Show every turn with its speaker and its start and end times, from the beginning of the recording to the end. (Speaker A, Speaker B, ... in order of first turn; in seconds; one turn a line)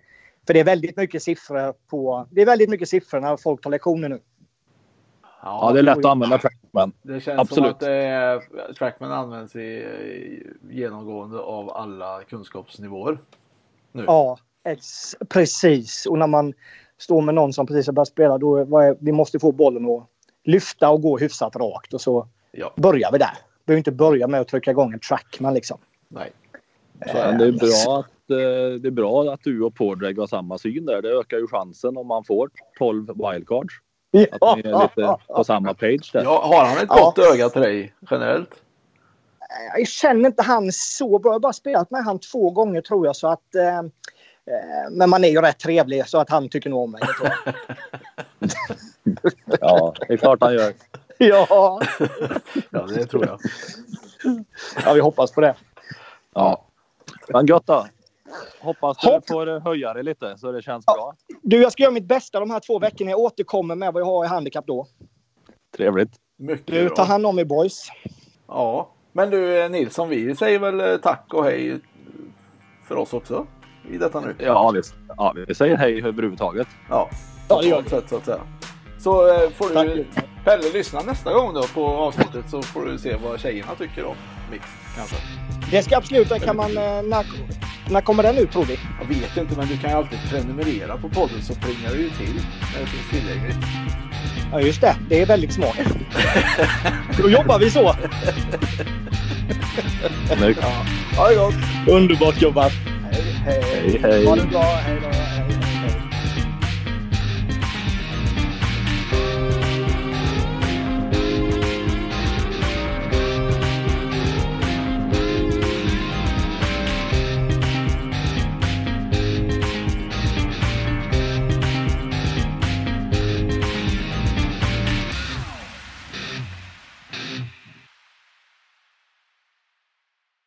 Speaker A: 0.5-4.2
Speaker B: 5.4-6.1
Speaker C: 5.6-7.8
Speaker B: 7.0-13.2
Speaker A: 14.1-25.8
Speaker B: 27.0-27.5
Speaker C: 27.2-33.8
Speaker A: 27.3-27.8
Speaker A: 34.1-35.4
Speaker C: 34.3-36.3
Speaker B: 36.2-38.6
Speaker A: 36.9-37.1
Speaker A: 39.6-43.9
Speaker A: 44.5-47.4
Speaker A: 49.2-49.5
Speaker C: 49.6-50.8
Speaker A: 51.2-52.0
Speaker B: 52.1-53.5
Speaker A: 54.8-55.6
Speaker C: 57.3-57.9
Speaker C: 58.6-61.1
Speaker A: 61.4-64.9
Speaker C: 65.7-66.1
Speaker B: 66.4-67.1
Speaker A: 66.7-67.9
Speaker B: 68.5-72.3
Speaker B: 72.8-74.5
Speaker C: 74.4-76.7
Speaker B: 76.9-78.5
Speaker A: 77.5-77.9
Speaker B: 79.0-85.2
Speaker A: 79.7-80.1
Speaker A: 85.7-88.8
Speaker B: 89.0-93.7
Speaker A: 94.5-95.9
Speaker B: 96.2-96.9
Speaker A: 97.1-98.1
Speaker C: 100.3-100.6
Speaker B: 100.6-101.5
Speaker A: 101.2-102.8
Speaker B: 103.0-104.6
Speaker C: 103.7-104.5
Speaker A: 104.2-106.0